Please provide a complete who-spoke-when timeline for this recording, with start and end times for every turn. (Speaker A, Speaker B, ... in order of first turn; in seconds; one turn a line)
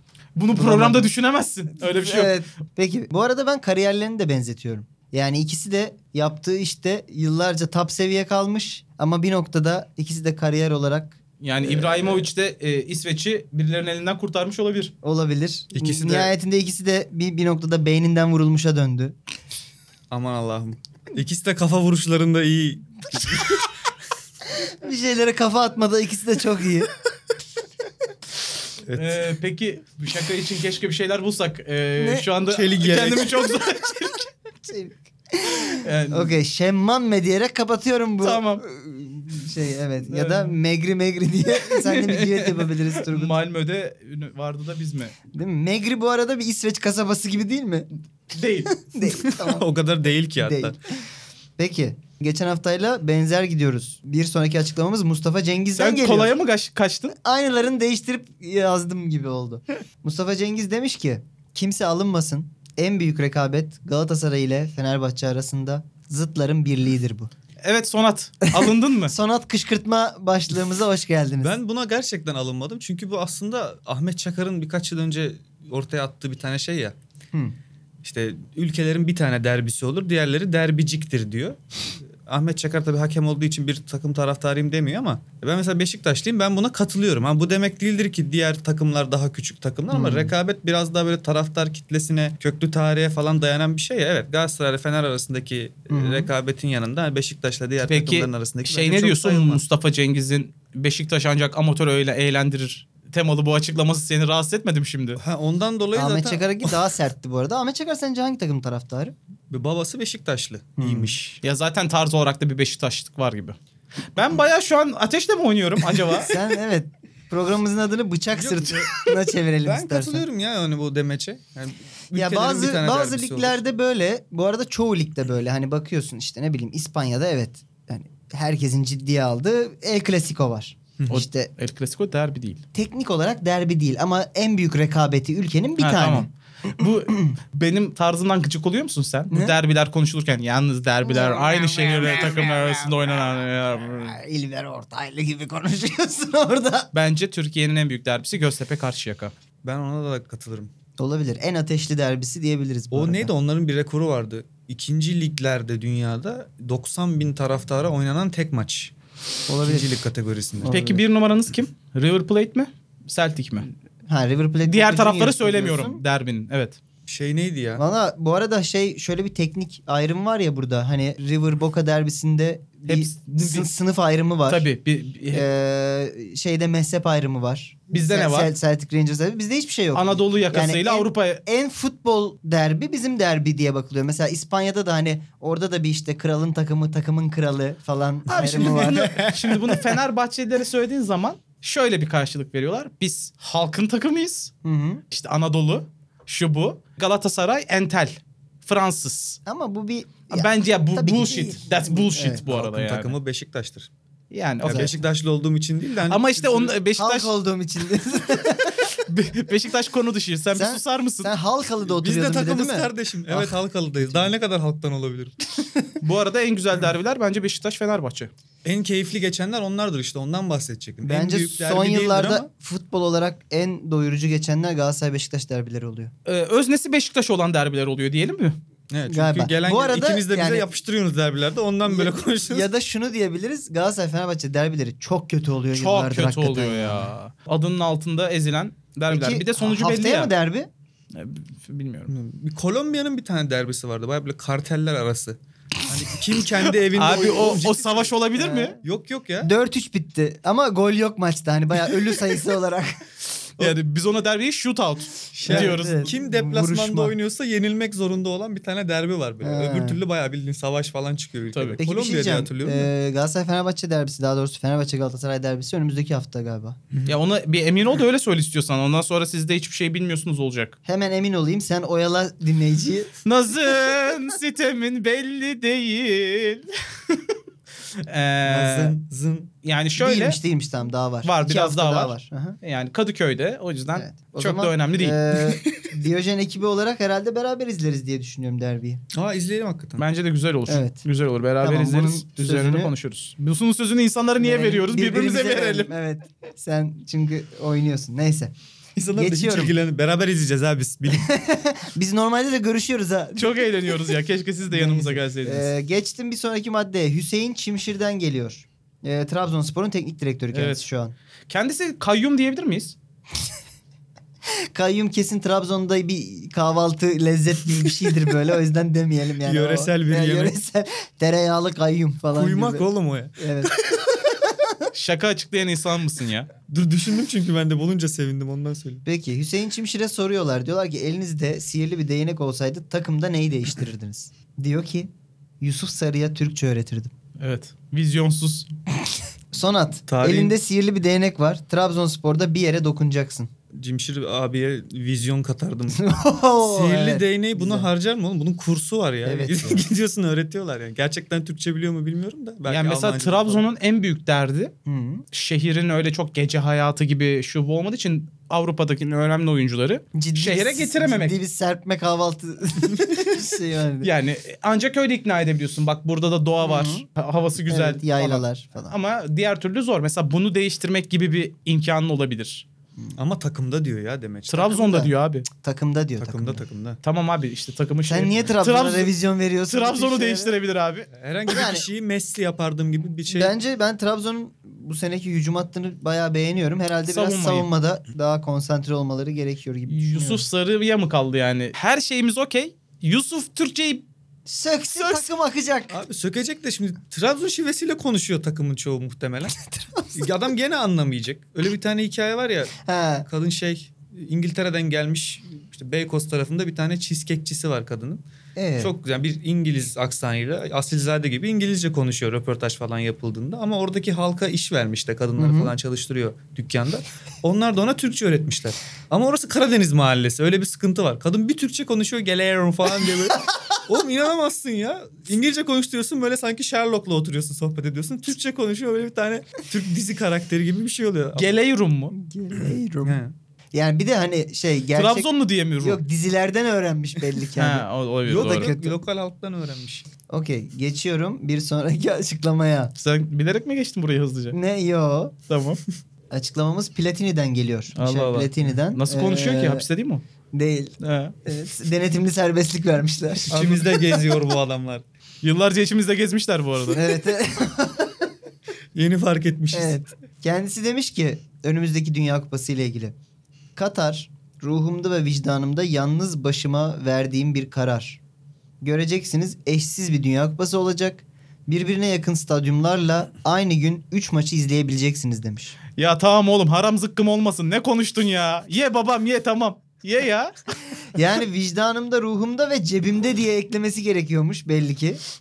Speaker A: 0.3-2.4
Speaker B: 0.5-1.1
Speaker B: 1.8-12.3
Speaker A: 11.4-14.9
Speaker B: 15.0-19.1
Speaker C: 15.7-16.3
Speaker C: 20.1-23.7
Speaker B: 24.5-26.9
Speaker C: 28.9-29.2
Speaker A: 28.9-34.3
Speaker B: 32.0-32.3
Speaker C: 32.5-33.5
Speaker B: 34.6-43.3
Speaker A: 35.5-36.3
Speaker A: 38.2-38.6
Speaker A: 40.1-40.5
Speaker A: 41.6-45.1
Speaker B: 45.3-47.9
Speaker A: 48.3-48.7
Speaker B: 48.7-49.7
Speaker C: 49.1-50.8
Speaker B: 50.4-50.8
Speaker B: 51.6-56.3
Speaker A: 55.8-57.1
Speaker B: 57.1-67.3
Speaker A: 67.6-69.1
Speaker B: 68.5-71.5
Speaker C: 71.4-76.9
Speaker C: 78.0-81.6
Speaker C: 82.2-99.6
Speaker B: 89.9-90.3
Speaker B: 95.9-96.3
Speaker A: 97.8-105.2
Speaker C: 105.2-106.8
Speaker B: 105.9-109.1
Speaker C: 109.5-111.4
Speaker B: 110.8-111.2
Speaker A: 111.4-113.5
Speaker A: 114.1-116.3
Speaker B: 116.2-120.2
Speaker C: 118.3-119.1
Speaker C: 119.6-123.6
Speaker B: 122.1-131.5
Speaker A: 131.1-132.6
Speaker B: 132.7-136.3
Speaker A: 135.8-144.2
Speaker B: 139.3-139.6
Speaker B: 141.1-142.7
Speaker B: 144.0-146.9
Speaker A: 146.9-149.3
Speaker C: 149.6-150.7
Speaker B: 151.0-153.3
Speaker C: 152.9-158.9
Speaker B: 159.5-159.9
Speaker C: 159.6-160.8
Speaker B: 160.6-161.0
Speaker A: 160.7-163.7
Speaker B: 164.1-166.0
Speaker A: 164.6-166.8
Speaker C: 167.1-167.8
Speaker B: 167.8-174.6
Speaker A: 172.8-173.7
Speaker A: 174.5-175.5
Speaker B: 175.3-189.3
Speaker A: 177.9-178.5
Speaker A: 179.9-181.4
Speaker C: 188.3-189.6
Speaker A: 188.3-194.5
Speaker B: 194.6-195.0
Speaker A: 195.1-199.4
Speaker B: 199.4-202.4
Speaker A: 200.3-203.1
Speaker C: 202.5-203.9
Speaker A: 204.3-204.9
Speaker C: 204.6-206.8
Speaker B: 204.6-204.9
Speaker A: 206.1-207.3
Speaker B: 207.0-208.9
Speaker A: 209.1-211.3
Speaker B: 210.5-214.3
Speaker C: 211.9-215.4
Speaker B: 215.6-215.9
Speaker A: 216.0-218.3
Speaker C: 218.6-222.4
Speaker B: 221.0-226.1
Speaker A: 226.2-228.6
Speaker C: 228.9-232.7
Speaker B: 229.1-230.7
Speaker B: 231.8-237.1
Speaker A: 235.7-240.3
Speaker B: 239.1-240.7
Speaker A: 241.1-242.1
Speaker C: 242.1-248.1
Speaker A: 246.8-248.8
Speaker B: 248.3-248.8
Speaker C: 248.8-249.5
Speaker B: 249.4-253.0
Speaker A: 253.6-256.1
Speaker C: 255.3-262.9
Speaker B: 255.5-257.1
Speaker B: 259.4-260.0
Speaker A: 261.5-261.8
Speaker B: 261.8-266.8
Speaker A: 267.1-270.8
Speaker B: 270.8-273.1
Speaker A: 273.2-277.4
Speaker A: 278.0-278.9
Speaker C: 278.4-279.5
Speaker A: 279.6-280.4
Speaker B: 280.0-282.6
Speaker A: 281.2-285.2
Speaker B: 283.9-289.0
Speaker C: 285.6-285.9
Speaker C: 289.1-290.0
Speaker A: 290.0-295.9
Speaker B: 290.7-291.0
Speaker B: 291.6-292.9
Speaker B: 294.4-298.5
Speaker C: 299.0-301.3
Speaker B: 299.1-299.7
Speaker B: 301.1-304.1
Speaker A: 303.4-305.7
Speaker B: 304.7-311.1
Speaker A: 310.5-310.8
Speaker A: 311.5-312.9
Speaker B: 314.5-323.7
Speaker C: 319.4-320.5
Speaker C: 322.3-324.3
Speaker B: 324.4-324.9
Speaker A: 324.9-326.5
Speaker C: 326.7-329.0
Speaker B: 329.0-335.1
Speaker B: 335.6-337.1
Speaker A: 337.4-338.7
Speaker B: 339.5-343.5
Speaker C: 340.1-340.5
Speaker C: 343.7-346.1
Speaker B: 345.9-347.9
Speaker C: 346.6-353.7
Speaker B: 349.2-349.8
Speaker A: 352.7-354.7
Speaker B: 354.9-355.2
Speaker A: 355.3-361.4
Speaker B: 360.1-364.1
Speaker A: 364.0-372.6
Speaker B: 366.6-367.0
Speaker B: 367.6-368.9
Speaker C: 373.1-374.7
Speaker A: 374.5-375.4
Speaker B: 374.7-376.6
Speaker C: 376.2-377.0
Speaker A: 377.0-379.1
Speaker B: 378.1-380.5
Speaker A: 379.7-381.1
Speaker C: 381.1-383.5
Speaker B: 381.5-381.9
Speaker B: 383.3-390.4
Speaker A: 387.1-387.7
Speaker A: 389.9-394.0
Speaker B: 394.4-396.0
Speaker A: 394.9-395.2
Speaker C: 395.9-408.2
Speaker B: 399.6-400.3
Speaker B: 402.8-403.3
Speaker B: 408.6-408.9
Speaker C: 408.8-431.5
Speaker B: 415.4-415.7
Speaker A: 431.4-432.1
Speaker B: 432.1-433.2
Speaker C: 433.0-433.3
Speaker B: 433.7-435.3
Speaker A: 434.9-436.0
Speaker B: 435.8-439.0
Speaker A: 437.6-438.7
Speaker C: 438.3-440.1
Speaker B: 440.3-442.9
Speaker A: 442.9-444.6
Speaker B: 444.5-445.3
Speaker A: 445.5-445.8
Speaker B: 446.3-449.8
Speaker A: 447.9-450.2
Speaker B: 450.5-453.6
Speaker A: 451.0-451.4
Speaker A: 453.4-453.9
Speaker C: 453.5-455.0
Speaker A: 455.4-457.0
Speaker B: 456.9-458.3
Speaker C: 458.9-459.9
Speaker B: 459.7-463.1
Speaker B: 463.8-468.2
Speaker B: 468.8-475.8
Speaker A: 476.0-480.5
Speaker B: 481.1-485.2